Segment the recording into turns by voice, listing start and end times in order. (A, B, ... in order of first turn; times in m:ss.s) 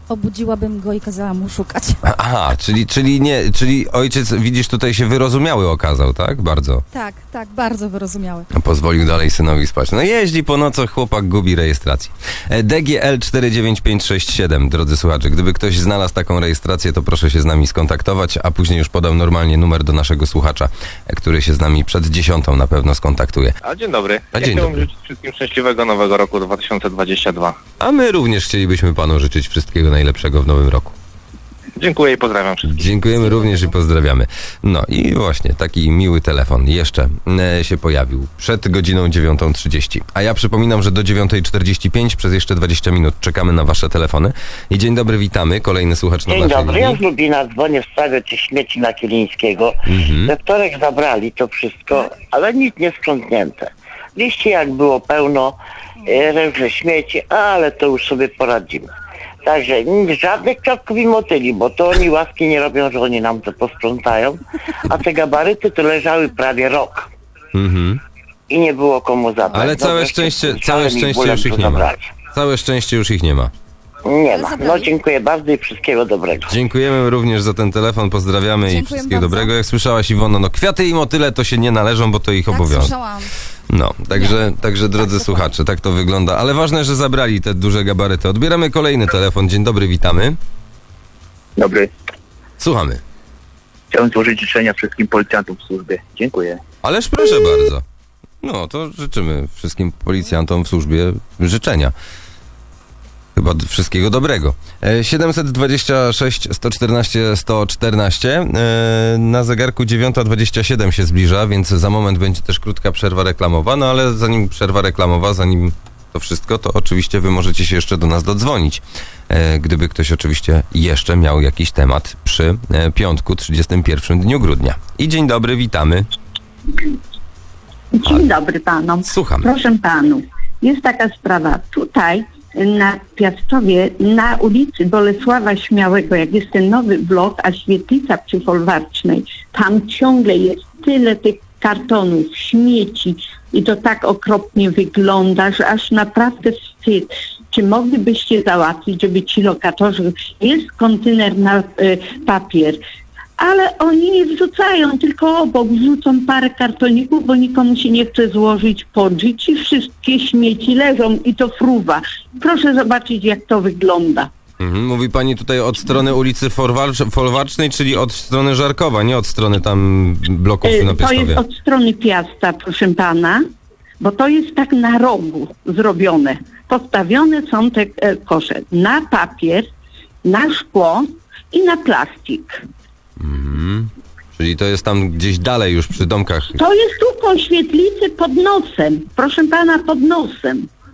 0:00.1-0:02.0 A
0:02.0-0:06.8 B
0:06.9-0:08.5 A
0:08.5-0:23.6 B
0:23.6-0:27.6 C
0:24.3-0:24.9 B
0:27.8-0:30.9 B
0:31.8-0:33.4 C
0:32.6-0:47.0 B
0:33.2-0:33.7 A
0:46.3-0:58.9 D
0:49.8-0:50.3 B
0:59.4-1:07.1 D
1:07.5-1:08.0 B
1:08.5-1:12.2 D
1:09.5-1:13.5 B
1:14.0-1:16.6 D
1:14.4-1:14.8 A
1:16.5-1:22.9 B
1:18.6-1:19.5 A
1:22.5-1:23.3 A
1:23.7-1:30.4 B
1:24.1-1:25.5 A
1:31.6-1:31.9 E
1:32.6-1:33.0 B
1:33.9-1:36.6 E
1:36.8-1:37.8 B
1:38.4-1:41.9 B
1:43.4-2:06.0 B
2:07.9-2:32.8 F
2:09.0-2:09.5 B
2:33.4-2:44.3 F
2:44.6-2:51.4 B
2:50.6-2:53.4 F
2:54.0-2:59.7 F
3:00.2-3:02.6 F
3:03.2-3:06.6 B
3:06.5-3:10.7 F